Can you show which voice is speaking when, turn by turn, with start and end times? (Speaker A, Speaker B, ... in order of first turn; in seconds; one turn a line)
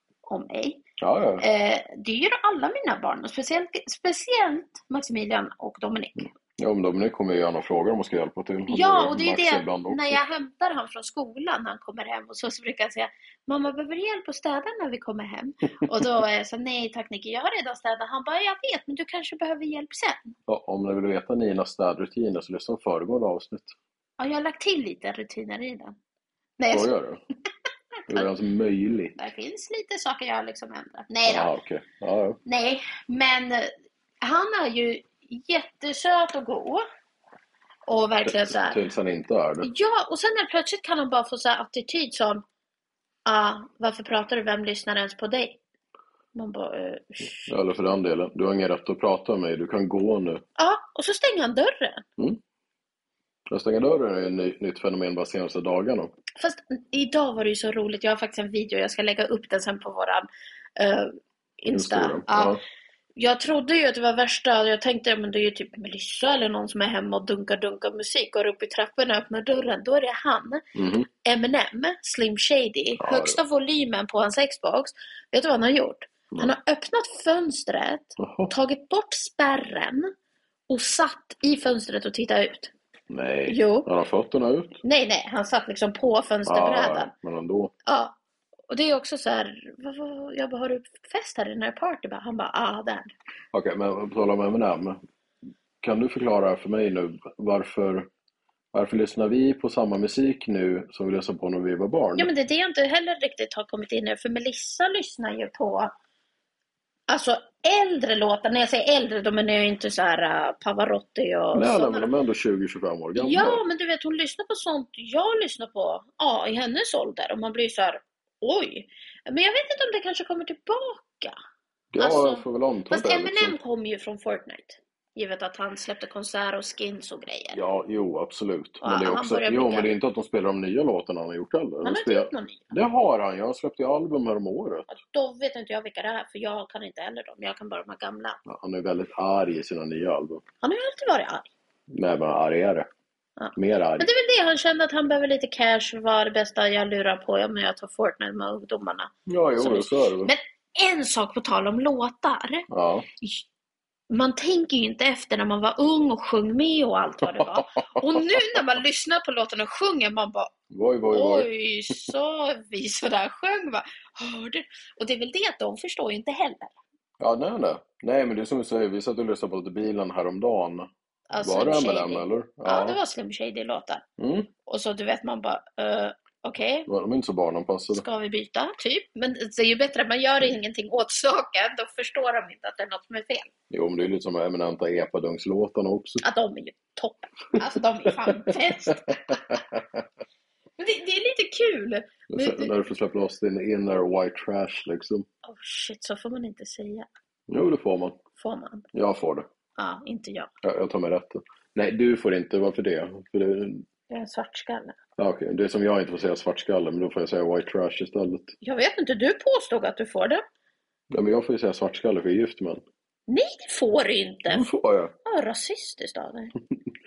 Speaker A: 0.3-0.8
Speaker B: 1.0-1.4
Speaker A: 1.4-6.3
Speaker B: 6.2-10.2
Speaker A: 8.7-20.3
Speaker B: 20.5-23.7
Speaker A: 24.2-25.9
Speaker A: 26.6-26.9
Speaker B: 26.7-27.2
Speaker B: 28.1-29.1
Speaker A: 29.1-31.5
Speaker B: 31.2-32.4
Speaker A: 32.4-36.8
Speaker A: 37.9-38.8
Speaker B: 38.2-39.7
Speaker A: 39.6-42.4
Speaker A: 43.2-45.6
Speaker A: 46.3-47.5
Speaker B: 47.5-50.4
Speaker A: 50.6-52.0
Speaker B: 53.5-56.1
Speaker A: 56.4-62.5
Speaker B: 61.7-62.6
Speaker A: 63.2-70.6
Speaker B: 70.7-71.1
Speaker A: 71.2-80.1
Speaker B: 73.0-73.4
Speaker B: 78.2-78.5
Speaker A: 80.7-82.7
Speaker B: 83.1-84.8
Speaker A: 83.5-83.9
Speaker A: 84.8-87.1
Speaker B: 86.5-87.7
Speaker A: 87.8-88.1
Speaker A: 88.7-93.1
Speaker B: 93.5-95.0
Speaker B: 95.8-98.1
Speaker B: 98.7-102.3
Speaker A: 102.2-105.9
Speaker A: 107.1-112.1
Speaker B: 111.5-113.6
Speaker A: 113.2-121.4
Speaker B: 121.9-123.6
Speaker A: 122.0-127.6
Speaker B: 127.5-134.9
Speaker A: 128.8-129.9
Speaker A: 131.8-132.7
Speaker A: 134.9-138.4
Speaker B: 138.4-140.4
Speaker A: 140.6-141.5
Speaker B: 141.9-142.9
Speaker A: 143.4-152.7
Speaker B: 143.5-144.1
Speaker B: 149.3-150.3
Speaker B: 152.7-153.1
Speaker A: 154.1-160.5
Speaker B: 157.2-158.2
Speaker B: 160.7-162.1
Speaker A: 161.1-166.7
Speaker B: 167.2-173.0
Speaker A: 171.3-174.0
Speaker B: 174.2-174.5
Speaker A: 174.7-176.9
Speaker B: 176.9-178.0
Speaker A: 177.9-183.5
Speaker B: 183.7-186.2
Speaker A: 186.2-189.4
Speaker B: 188.1-190.0
Speaker A: 190.8-192.8
Speaker B: 192.3-195.2
Speaker A: 195.4-197.1
Speaker B: 197.5-198.2
Speaker A: 198.4-198.8
Speaker B: 198.9-199.5
Speaker A: 199.8-200.5
Speaker B: 200.6-203.8
Speaker A: 204.1-204.9
Speaker B: 205.2-208.5
Speaker A: 208.6-210.4
Speaker B: 211.1-212.8
Speaker A: 213.3-214.6
Speaker B: 214.5-215.1
Speaker A: 215.2-216.5